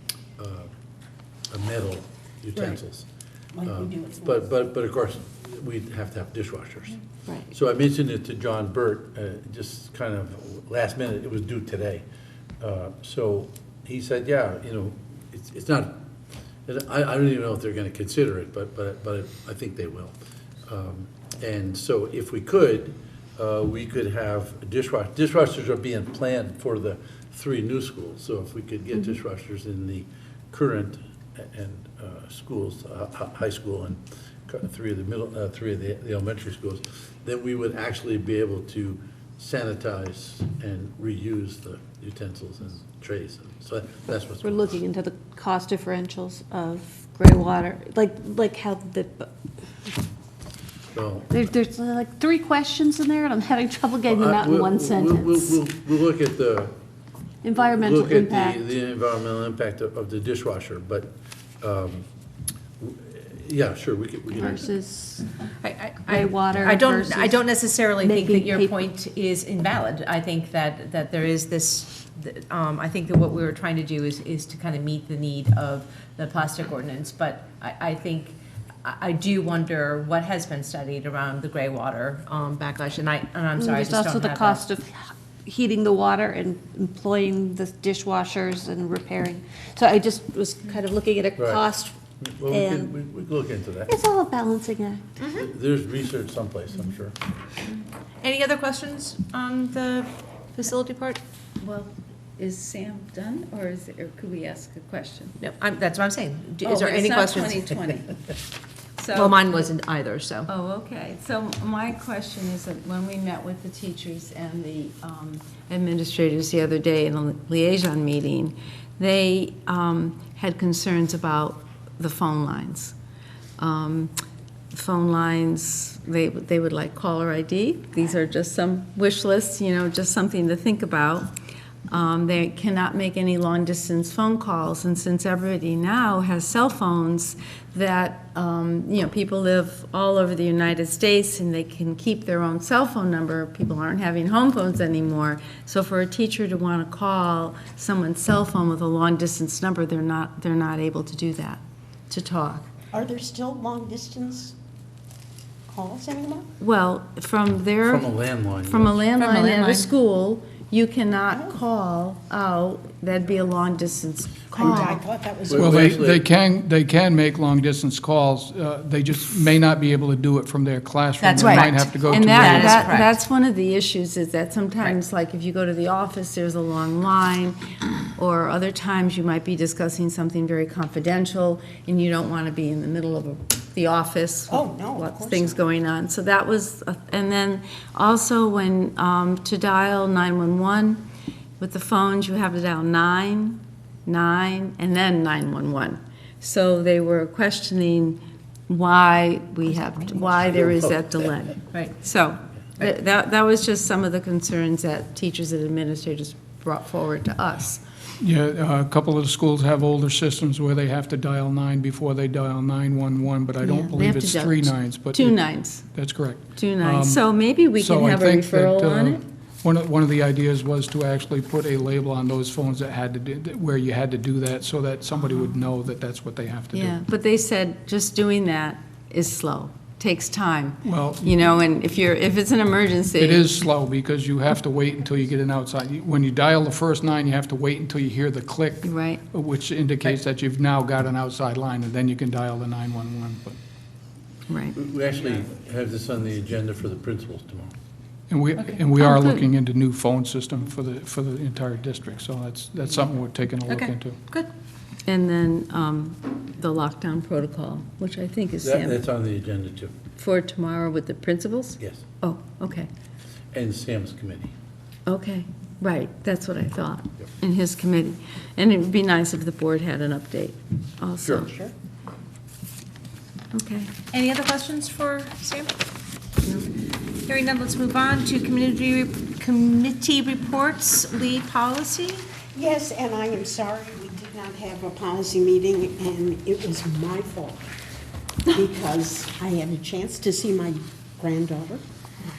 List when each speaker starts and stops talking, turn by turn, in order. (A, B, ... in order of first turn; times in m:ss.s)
0:00.4-0:00.7 A
0:01.5-0:03.1 A
0:03.5-0:04.4 B
0:03.6-0:07.0 A
0:07.5-0:12.0 A
0:12.6-0:16.0 A
0:16.7-0:44.8 A
0:44.4-0:49.3 C
0:50.9-0:51.4 A
0:51.3-0:55.2 C
0:54.0-0:56.7 A
0:57.4-0:58.6 C
0:57.6-1:02.0 A
1:02.8-1:04.7 A
1:04.4-1:05.2 C
1:05.6-1:24.7 D
1:06.1-1:07.4 C
1:08.0-1:08.7 C
1:23.6-1:31.9 C
1:31.4-1:34.0 A
1:32.5-1:32.8 C
1:33.9-1:35.0 C
1:35.2-1:35.4 D
1:35.3-1:37.1 A
1:38.2-1:41.2 D
1:41.6-1:45.3 E
1:45.4-1:48.0 D
1:46.6-1:48.1 E
1:49.0-1:49.4 E
1:49.1-1:50.5 D
1:50.4-2:02.9 E
2:03.6-2:04.1 E
2:04.7-2:11.3 E
2:11.9-2:32.7 E
2:32.9-2:34.6 B
2:35.7-2:36.5 B
2:36.6-2:45.0 E
2:37.8-2:39.0 A
2:39.2-2:39.9 D
2:44.5-2:46.0 B
2:45.5-2:46.2 A
2:45.6-2:53.0 F
2:51.2-2:53.1 D
2:51.4-2:57.6 E
2:58.2-3:11.0 E
3:04.5-3:05.6 B
3:11.6-3:27.8 E
3:20.4-3:21.2 A
3:28.2-3:47.0 F
3:33.6-3:35.8 E
3:36.6-3:39.2 E
3:46.7-3:53.6 E
3:50.8-3:51.3 F
3:53.2-4:03.5 F
3:58.8-3:59.2 E
4:04.5-4:04.8 E
4:04.7-4:07.7 A
4:08.3-4:14.2 F
4:13.7-4:14.5 D
4:15.0-4:19.0 E
4:18.6-4:19.9 A
4:20.2-4:22.9 E
4:23.5-4:24.5 A
4:25.1-4:31.5 E
4:31.2-4:31.5 A
4:31.4-4:31.7 B
4:33.5-4:33.9 E
4:34.1-4:35.7 D
4:36.4-4:36.7 E
4:37.2-4:42.2 D
4:42.5-4:47.6 B
4:48.5-4:51.8 B